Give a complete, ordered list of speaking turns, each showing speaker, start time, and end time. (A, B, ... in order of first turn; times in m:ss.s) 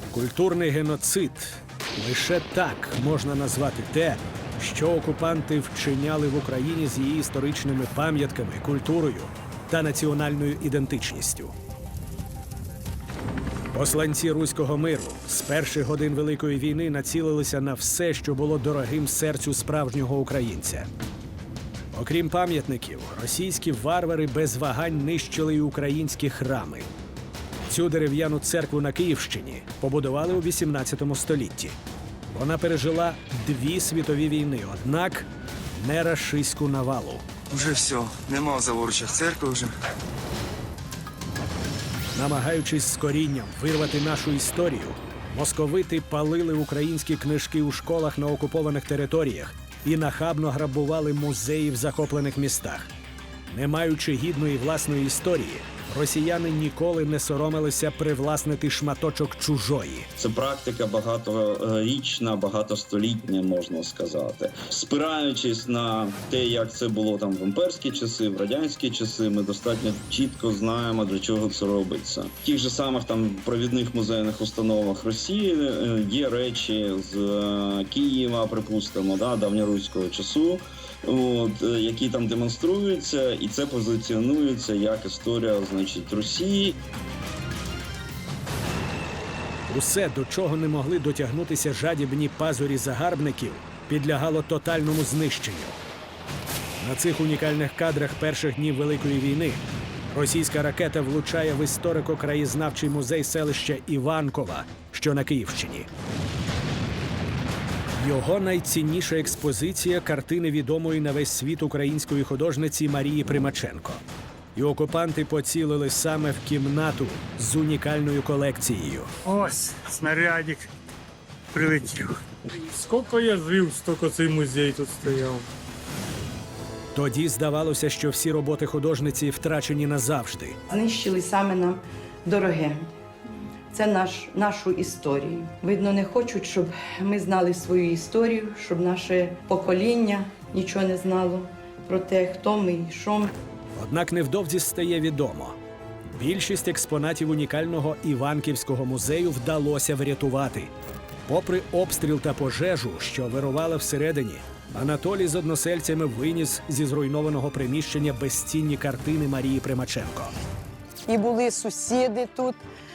0:00.1-0:11.5 A
0:13.7-0:20.9 A
0:21.9-0:26.9 A
0:27.7-0:31.7 A
0:32.3-0:37.2 A
0:37.5-0:39.7 B
0:42.1-0:52.9 A
0:53.5-1:00.1 A
1:00.2-1:26.8 C
1:29.7-1:35.8 A
1:36.8-1:45.9 A
1:48.0-1:54.0 A
1:54.5-1:59.1 A
1:59.2-2:00.7 D
2:01.5-2:05.5 D
2:06.9-2:10.6 A
2:10.7-2:12.9 E
2:13.7-2:23.3 E
2:23.8-2:25.6 A
2:26.1-2:30.7 A
2:31.3-2:40.3 A
2:41.1-2:42.6 E